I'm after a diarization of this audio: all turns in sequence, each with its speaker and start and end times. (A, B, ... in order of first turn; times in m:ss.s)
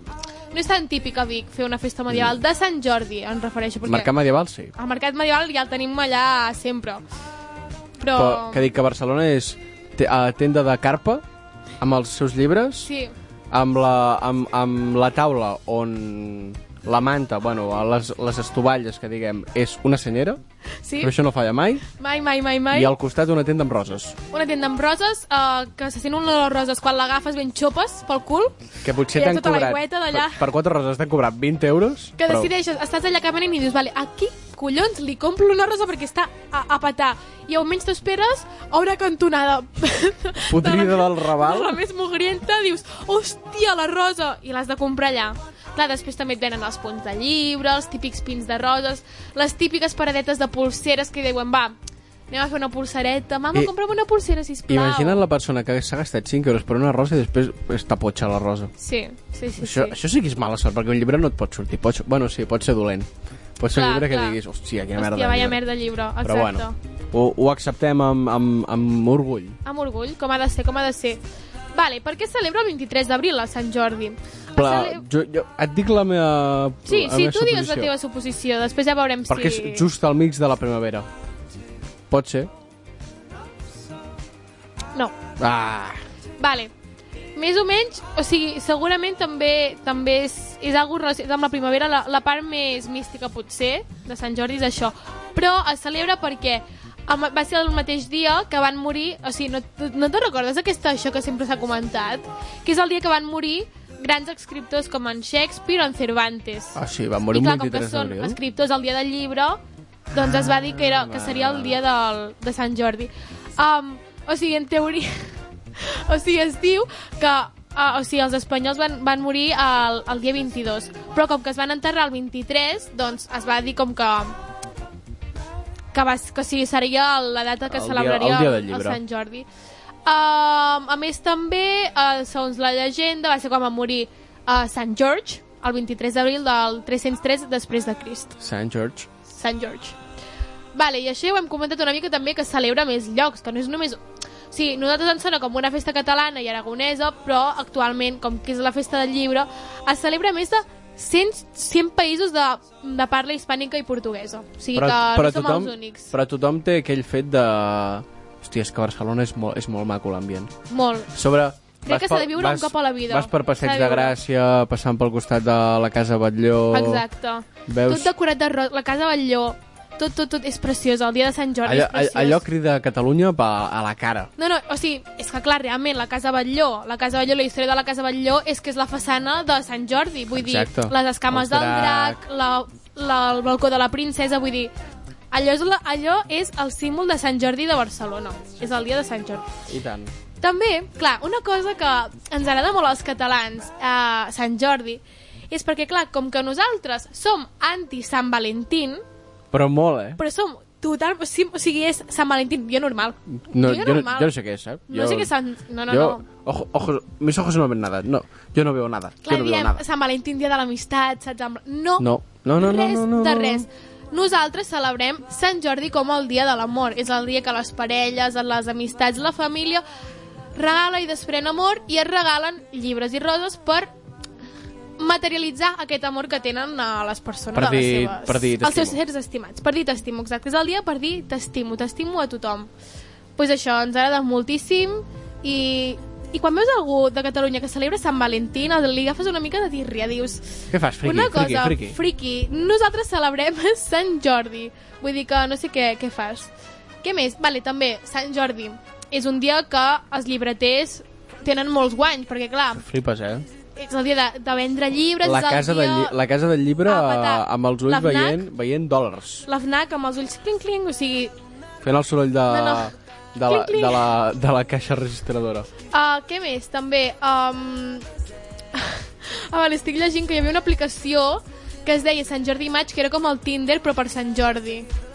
0:00.5-0:04.1 A
0:02.1-0:02.4 B
0:03.8-0:04.7 B
0:04.8-0:07.0 A
0:08.0-0:08.7 A
0:08.1-0:11.2 B
0:11.8-0:12.9 B
0:12.8-0:13.1 A
0:13.5-0:20.4 B
0:20.8-0:21.1 A
0:21.0-0:21.9 B
0:21.9-0:22.9 A
0:22.7-0:24.2 B
0:24.3-0:28.6 A
0:28.8-0:32.5 B
0:29.1-0:30.4 A
0:32.2-0:51.8 A
0:40.5-0:41.8 B
0:52.3-0:55.2 A
0:54.7-0:58.7 B
0:58.8-0:59.9 A
0:59.6-1:05.6 B
1:03.7-1:04.4 A
1:05.0-1:06.7 A
1:06.2-1:09.6 B
1:09.6-1:11.2 A
1:11.7-1:15.0 A
1:14.6-1:17.9 B
1:16.8-1:19.8 A
1:19.3-1:21.1 B
1:22.1-1:22.5 B
1:25.4-1:26.0 B
1:26.4-1:26.7 A
1:27.4-1:46.8 A
1:46.7-1:48.4 B
1:47.3-1:49.6 A
1:50.1-1:55.1 A
1:50.2-1:51.8 B
1:55.8-2:04.4 A
2:05.9-2:09.5 A
2:07.7-2:09.0 B
2:10.0-2:18.4 A
2:18.4-2:19.1 B
2:19.3-2:20.0 A
2:20.7-2:36.1 A
2:34.7-2:40.5 B
2:40.7-2:41.1 A
2:41.1-2:47.0 B
2:41.8-2:44.2 A
2:46.7-2:52.4 A
2:47.7-2:48.1 B
2:51.6-2:54.3 B
2:54.4-3:04.7 A
3:00.3-3:02.2 B
3:05.3-3:09.5 A
3:09.7-3:10.1 B
3:10.4-3:19.0 A
3:19.5-3:20.2 B
3:20.2-3:24.3 A
3:23.3-3:25.3 B
3:24.9-3:26.2 A
3:25.9-3:29.8 B
3:29.2-3:39.8 A
3:32.0-3:33.6 B
3:40.5-3:43.9 A
3:45.0-3:52.7 A
3:47.5-3:49.0 B
3:53.4-4:06.5 A
4:00.7-4:02.0 B
4:07.0-4:12.8 A
4:12.7-4:13.4 B
4:13.8-4:16.1 A
4:15.2-4:19.5 B
4:16.8-4:18.4 A
4:19.5-4:21.3 A
4:21.8-4:25.7 B
4:22.5-4:22.9 A
4:23.4-4:24.1 A
4:25.9-4:28.0 A
4:28.7-4:34.9 A